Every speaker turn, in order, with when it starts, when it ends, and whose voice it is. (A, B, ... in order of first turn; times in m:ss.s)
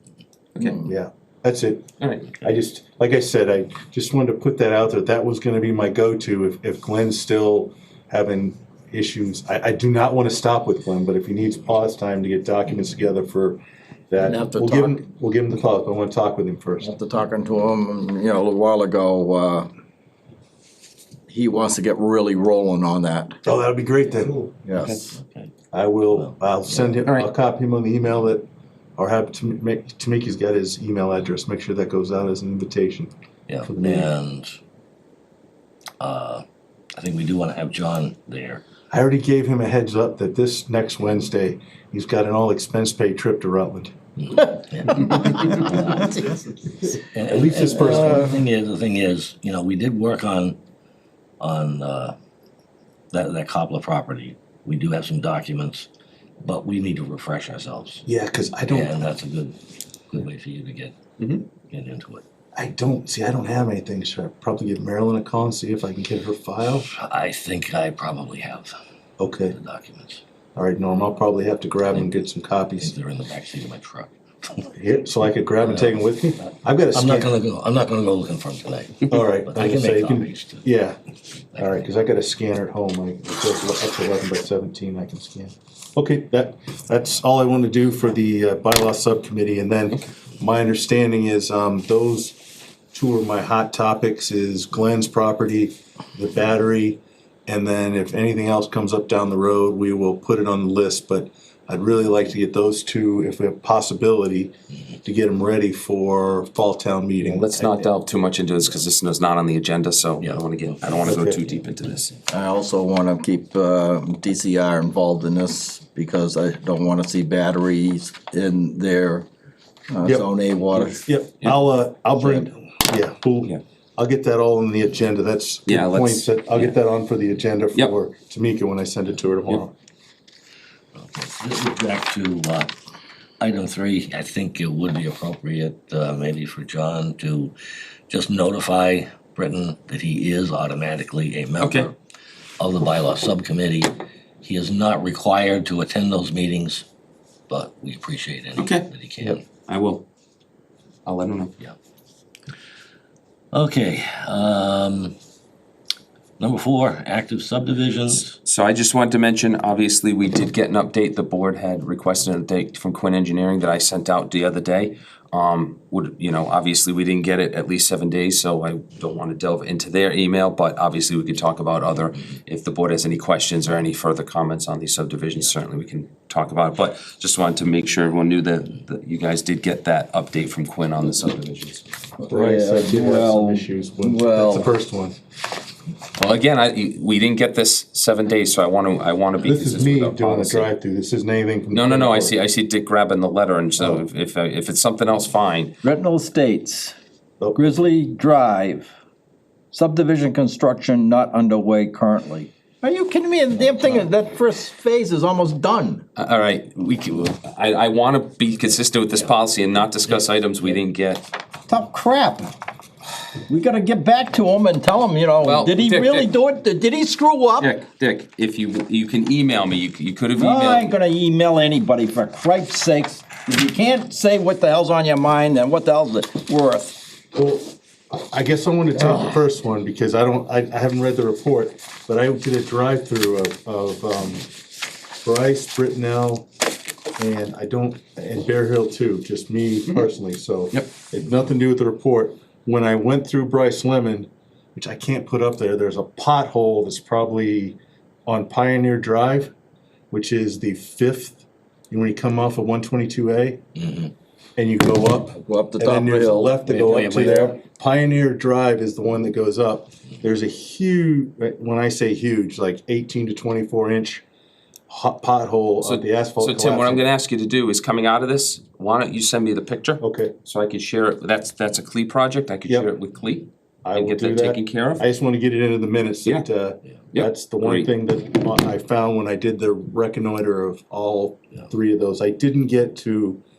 0:00.6-0:00.9 A
0:00.8-0:01.9 B
0:02.0-0:02.3 A
0:02.4-0:16.9 B
0:14.2-0:15.0 C
0:16.8-0:19.7 C
0:21.3-0:23.4 C
0:23.4-0:24.4 B
0:24.4-0:25.2 C
0:24.8-0:25.0 A
0:25.1-0:25.5 D
0:25.7-0:28.4 B
0:26.1-0:26.9 D
0:29.0-0:33.1 B
0:33.5-0:34.6 D
0:33.6-0:34.1 B
0:36.0-0:36.4 D
0:37.0-0:38.6 D
0:38.9-0:43.9 B
0:44.2-0:46.2 D
0:46.9-0:50.6 D
0:47.3-0:48.3 B
0:51.4-0:52.2 D
0:53.1-0:55.9 D
0:56.4-0:58.0 D
0:58.1-0:59.0 B
0:58.7-0:59.6 D
1:00.1-1:01.0 D
1:01.2-1:01.4 A
1:01.7-1:02.2 D
1:02.6-1:06.9 B
1:06.8-1:08.7 D
1:09.2-1:09.6 B
1:09.5-1:10.2 D
1:10.6-1:12.9 B
1:11.8-1:12.2 D
1:12.8-1:14.8 D
1:14.8-1:17.4 B
1:15.6-1:20.7 D
1:19.1-1:21.0 B
1:21.5-1:21.9 D
1:21.6-1:32.4 B
1:32.9-1:44.5 B
1:45.0-1:47.9 B
1:47.2-1:52.2 A
1:50.2-1:51.2 D
1:51.0-1:51.4 B
1:52.3-1:59.3 C
1:59.9-2:01.0 C
2:00.8-2:09.7 B
2:05.7-2:06.8 A
2:11.0-2:12.7 D
2:13.4-2:17.5 D
2:18.1-2:22.0 D
2:21.6-2:21.9 A
2:22.6-2:26.8 D
2:27.5-2:29.4 D
2:28.6-2:30.0 A
2:31.1-2:31.6 A
2:33.5-2:35.2 D
2:36.4-2:38.4 D
2:38.4-3:01.8 A
3:02.2-3:04.7 C
3:02.2-3:05.2 B
3:06.2-3:10.7 A
3:09.4-3:12.4 B
3:11.7-3:15.8 A
3:13.8-3:14.0 B
3:15.8-3:17.0 E
3:17.4-3:17.8 B
3:17.6-3:18.9 E
3:19.7-3:26.0 E
3:26.2-3:31.2 A
3:31.7-3:32.5 E
3:33.5-3:37.7 E
3:35.4-3:36.3 A
3:37.6-3:40.9 A
3:40.4-3:47.0 E
3:47.3-3:54.5 B
3:55.2-3:56.5 B
3:57.2-4:09.5 B
4:10.1-4:13.6 B
4:13.8-4:14.1 D
4:14.6-4:24.2 B
4:15.3-4:17.6 C
4:16.7-4:17.5 A
4:24.9-4:27.0 B
4:25.8-4:35.0 A
4:30.0-4:30.3 B
4:33.8-4:43.4 B
4:37.1-4:37.9 A